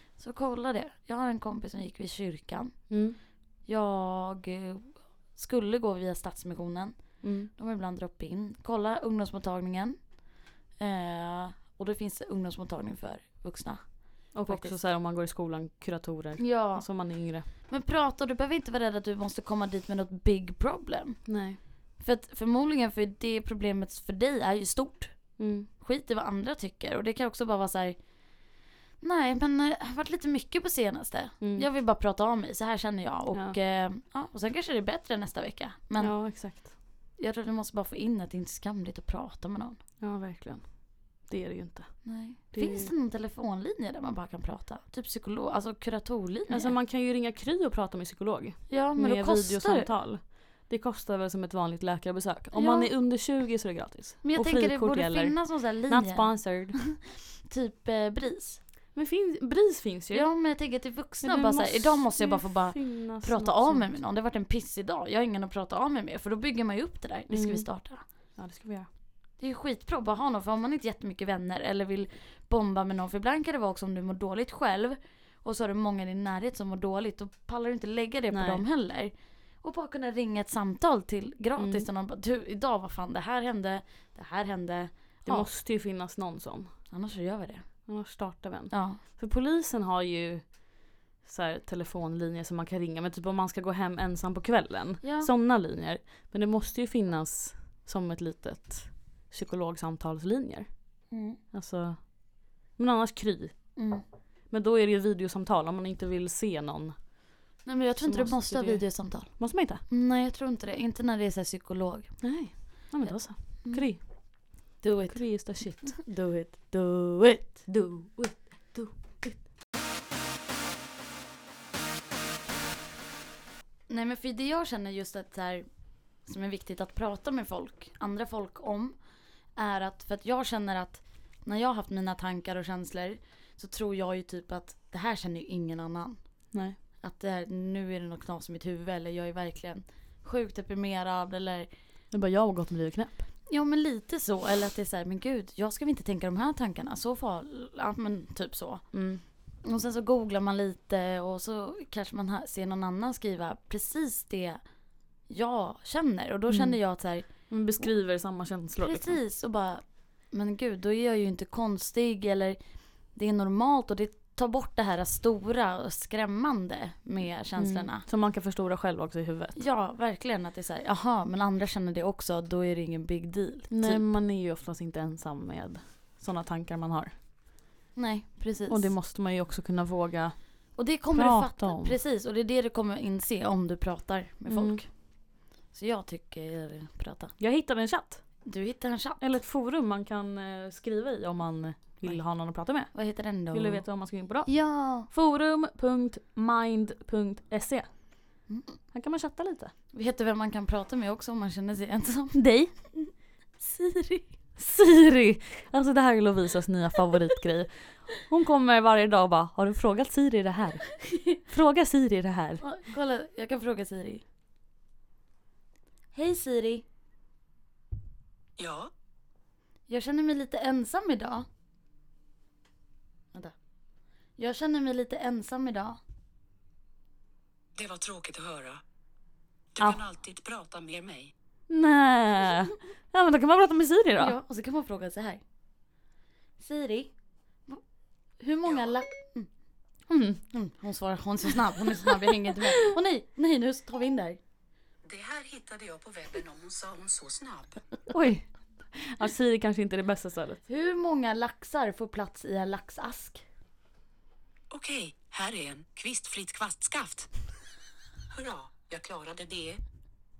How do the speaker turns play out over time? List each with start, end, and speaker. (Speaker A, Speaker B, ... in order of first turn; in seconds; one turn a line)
Speaker A: 0.1-3.0
Speaker B: 2.9-3.2
Speaker A: 3.6-10.1
Speaker B: 7.2-7.5
Speaker A: 10.8-14.8
Speaker B: 14.3-17.4
Speaker A: 16.4-16.9
Speaker A: 17.6-21.3
Speaker B: 21.3-21.6
Speaker A: 22.0-28.0
Speaker B: 25.4-25.7
Speaker A: 29.0-36.2
Speaker B: 31.4-31.6
Speaker B: 36.0-36.7
Speaker A: 37.2-39.8
Speaker B: 40.0-42.9
Speaker A: 42.0-46.7
Speaker B: 46.5-56.8
Speaker A: 48.7-49.9
Speaker A: 52.5-52.9
Speaker A: 54.2-58.6
Speaker B: 58.9-60.3
Speaker A: 60.1-68.0
Speaker B: 61.2-64.0
Speaker B: 67.3-67.7
Speaker B: 68.3-68.9
Speaker A: 69.4-85.5
Speaker B: 78.3-78.6
Speaker B: 81.6-81.8
Speaker B: 85.2-86.7
Speaker A: 86.9-87.6
Speaker B: 87.8-90.6
Speaker A: 88.7-89.0
Speaker B: 91.2-101.0
Speaker A: 95.0-95.3
Speaker A: 101.1-101.4
Speaker B: 101.5-103.7
Speaker A: 103.8-104.0
Speaker B: 104.5-107.1
Speaker A: 107.6-112.2
Speaker B: 108.0-109.8
Speaker B: 112.2-114.0
Speaker A: 113.6-114.0
Speaker A: 114.8-117.7
Speaker B: 115.1-116.0
Speaker B: 117.7-119.4
Speaker A: 123.9-125.7
Speaker A: 126.2-129.0
Speaker A: 129.6-136.2
Speaker B: 136.5-136.8
Speaker A: 137.0-141.7
Speaker B: 142.1-143.2
Speaker A: 143.5-148.8
Speaker B: 148.9-149.2
Speaker A: 149.6-154.6
Speaker A: 155.3-157.3
Speaker B: 156.5-156.8
Speaker B: 157.5-159.2
Speaker A: 158.8-162.6
Speaker A: 163.1-168.0
Speaker B: 167.6-169.6
Speaker A: 169.6-174.1
Speaker B: 173.7-177.1
Speaker A: 177.9-178.9
Speaker B: 178.7-180.4
Speaker A: 180.8-184.9
Speaker B: 181.1-182.0
Speaker B: 184.5-184.8
Speaker A: 185.7-187.3
Speaker B: 187.4-188.2
Speaker A: 188.4-189.2
Speaker B: 189.2-192.9
Speaker A: 192.9-193.8
Speaker B: 193.5-194.5
Speaker A: 194.4-195.1
Speaker B: 195.0-198.0
Speaker A: 198.5-198.8
Speaker B: 198.9-199.7
Speaker A: 199.9-204.3
Speaker B: 202.3-202.7
Speaker B: 204.6-210.9
Speaker A: 211.0-211.4
Speaker B: 211.4-212.6
Speaker A: 212.6-214.2
Speaker A: 216.1-216.8
Speaker C: 218.6-218.9
Speaker A: 219.9-221.5
Speaker A: 224.4-226.0
Speaker C: 227.8-228.8
Speaker C: 229.7-231.3
Speaker B: 231.7-234.3
Speaker A: 234.2-235.4
Speaker A: 236.6-237.1
Speaker A: 238.4-239.5
Speaker B: 240.1-240.4
Speaker A: 240.5-244.4
Speaker C: 245.0-247.8
Speaker B: 248.1-250.6
Speaker A: 250.7-253.4
Speaker C: 254.7-257.3
Speaker C: 258.3-259.8